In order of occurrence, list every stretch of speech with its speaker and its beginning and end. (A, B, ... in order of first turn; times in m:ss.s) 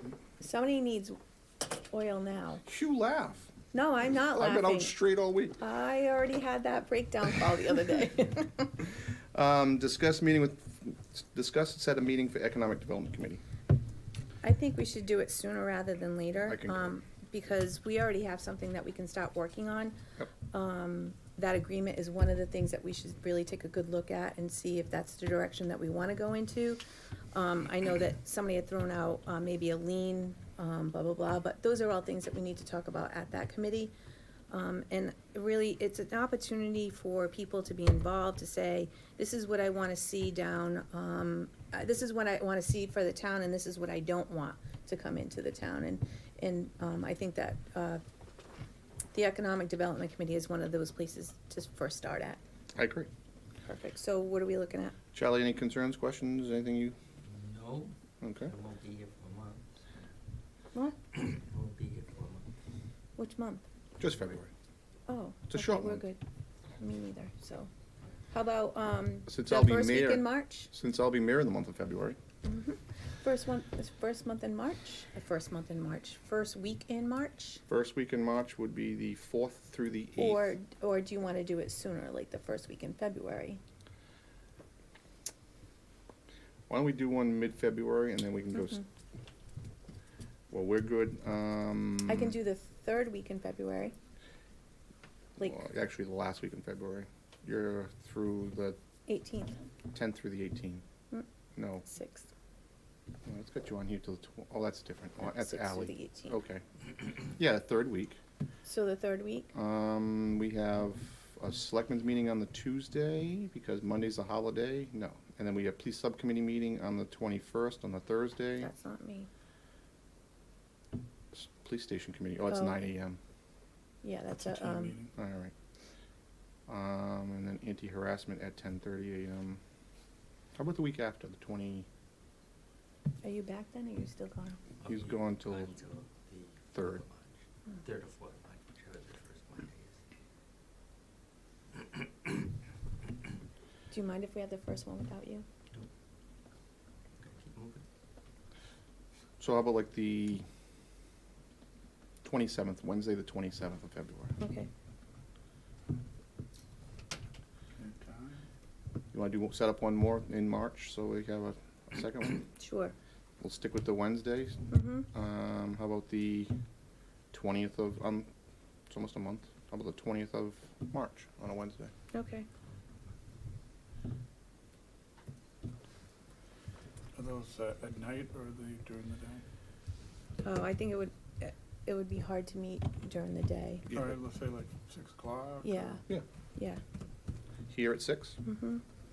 0:00.4-0:01.2 A
0:01.7-0:02.6 A
0:02.6-0:03.5 B
0:03.7-0:04.9 A
0:04.3-0:05.6 B
0:05.6-0:08.7 A
0:09.3-0:13.4 B
0:14.4-0:20.0 A
0:16.4-0:17.0 B
0:20.5-0:26.8 A
0:27.3-0:33.9 A
0:34.5-0:48.0 A
0:49.1-0:52.4 A
0:52.8-0:53.1 B
0:53.6-0:55.0 A
0:55.1-0:56.9 B
0:57.2-1:00.0 C
0:58.2-0:58.5 B
1:01.1-1:02.5 C
1:03.2-1:03.6 A
1:04.0-1:04.5 B
1:05.1-1:06.2 A
1:05.5-1:06.0 B
1:06.8-1:07.7 A
1:08.3-1:10.7 A
1:09.2-1:12.2 B
1:12.4-1:17.6 A
1:17.7-1:20.6 B
1:20.2-1:23.6 A
1:26.7-1:28.8 B
1:30.5-1:32.4 B
1:32.0-1:33.9 A
1:35.4-1:38.8 B
1:39.1-1:39.6 A
1:39.9-1:40.8 B
1:41.5-1:41.8 B
1:41.9-1:42.3 A
1:43.2-1:46.6 B
1:45.2-1:46.4 A
1:47.3-1:48.2 B
1:48.6-1:49.5 A
1:49.5-1:58.7 B
1:58.6-1:59.3 A
2:01.3-2:03.2 B
2:02.5-2:02.8 A
2:04.0-2:05.0 A
2:04.3-2:05.1 D
2:05.1-2:05.5 B
2:06.7-2:09.6 B
2:10.5-2:11.9 B
2:13.2-2:14.6 A
2:14.8-2:20.0 C
2:14.8-2:15.8 B
2:16.7-2:17.0 B
2:21.8-2:22.3 C
2:23.9-2:25.4 A
2:27.2-2:27.8 C
2:29.4-2:30.4 B
2:32.2-2:34.4 B
2:34.4-2:34.7 A
2:37.8-2:38.4 D
2:39.1-2:42.4 B
2:42.6-2:42.9 A
2:43.4-2:46.5 B
2:44.7-2:45.1 A
2:47.3-2:48.3 B
2:48.9-2:51.9 B
2:52.1-2:52.5 A
2:57.2-2:59.4 D
3:00.4-3:03.9 A
3:03.9-3:06.0 D
3:05.6-3:06.0 A
3:06.6-3:06.8 A
3:07.7-3:08.4 B
3:08.4-3:08.8 A